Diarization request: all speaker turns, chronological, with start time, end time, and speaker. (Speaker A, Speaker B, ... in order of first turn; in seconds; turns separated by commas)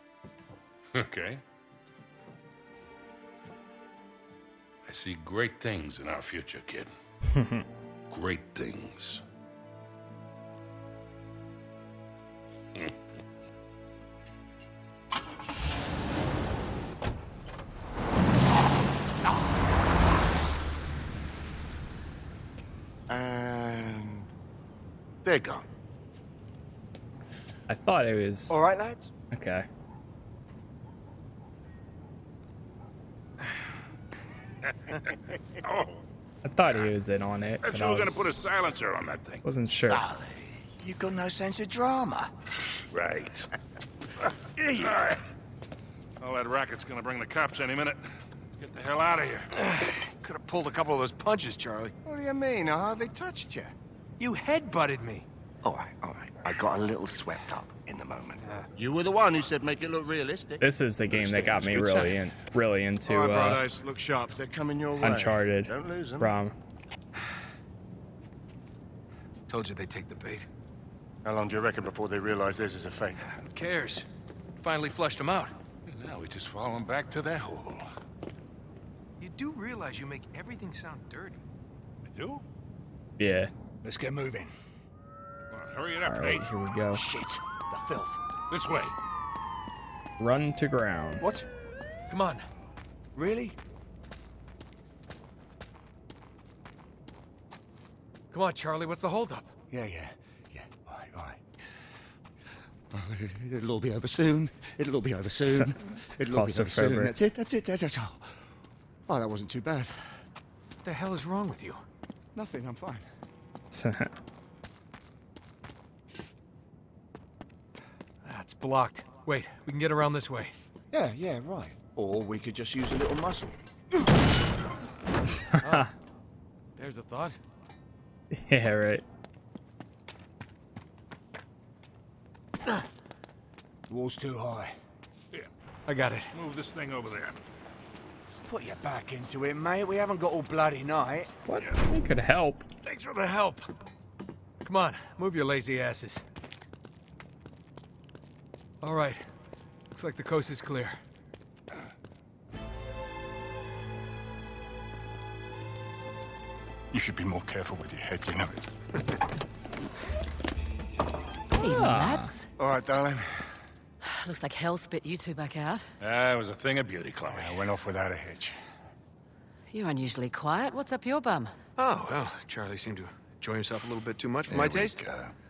Speaker A: 0.9-1.4, Speaker A: 4.8-6.9, Speaker B: 7.3-7.7, Speaker A: 8.1-9.2, Speaker C: 23.1-24.3, Speaker C: 25.2-25.7, Speaker B: 27.7-28.6, Speaker C: 28.5-29.1, Speaker B: 29.3-29.7, Speaker A: 35.6-36.0, Speaker B: 36.4-38.3, Speaker A: 37.6-39.4, Speaker B: 39.4-40.0, Speaker C: 39.8-42.3, Speaker A: 42.9-43.5, Speaker A: 44.8-45.2, Speaker A: 46.2-49.5, Speaker D: 49.5-51.9, Speaker C: 52.0-53.7, Speaker D: 54.2-55.3, Speaker C: 55.6-60.6, Speaker D: 58.4-58.7, Speaker B: 60.6-63.6, Speaker A: 61.1-62.2, Speaker C: 63.1-66.3, Speaker B: 65.0-66.5, Speaker D: 69.5-70.5, Speaker C: 71.2-73.2, Speaker D: 73.2-75.6, Speaker A: 75.9-77.9, Speaker D: 79.2-81.4, Speaker A: 82.1-82.4, Speaker B: 83.2-83.5, Speaker C: 83.8-84.5, Speaker A: 85.5-86.5, Speaker B: 86.1-87.0, Speaker C: 86.9-88.2, Speaker A: 88.5-89.0, Speaker B: 90.2-91.3, Speaker C: 91.2-91.5, Speaker D: 92.1-92.5, Speaker C: 93.2-93.6, Speaker D: 98.3-99.5, Speaker C: 99.7-101.4, Speaker C: 102.9-108.5, Speaker B: 105.5-107.2, Speaker C: 109.1-110.2, Speaker D: 110.8-111.8, Speaker C: 112.3-113.0, Speaker B: 113.7-114.1, Speaker D: 118.2-120.5, Speaker C: 120.9-123.6, Speaker B: 125.3-125.9, Speaker D: 125.6-125.9, Speaker D: 126.8-127.4, Speaker B: 128.3-129.1, Speaker C: 133.9-134.7, Speaker D: 135.9-136.3, Speaker A: 136.3-137.4, Speaker C: 138.4-141.3, Speaker B: 141.5-142.7, Speaker D: 142.8-143.7, Speaker D: 144.6-146.2, Speaker D: 148.8-149.2, Speaker D: 149.9-151.0, Speaker C: 156.9-158.7, Speaker E: 161.5-162.5, Speaker B: 161.6-162.3, Speaker C: 162.6-163.6, Speaker E: 164.0-165.9, Speaker A: 166.0-167.6, Speaker C: 167.3-168.6, Speaker E: 169.7-171.6, Speaker D: 171.8-175.0, Speaker C: 174.5-175.3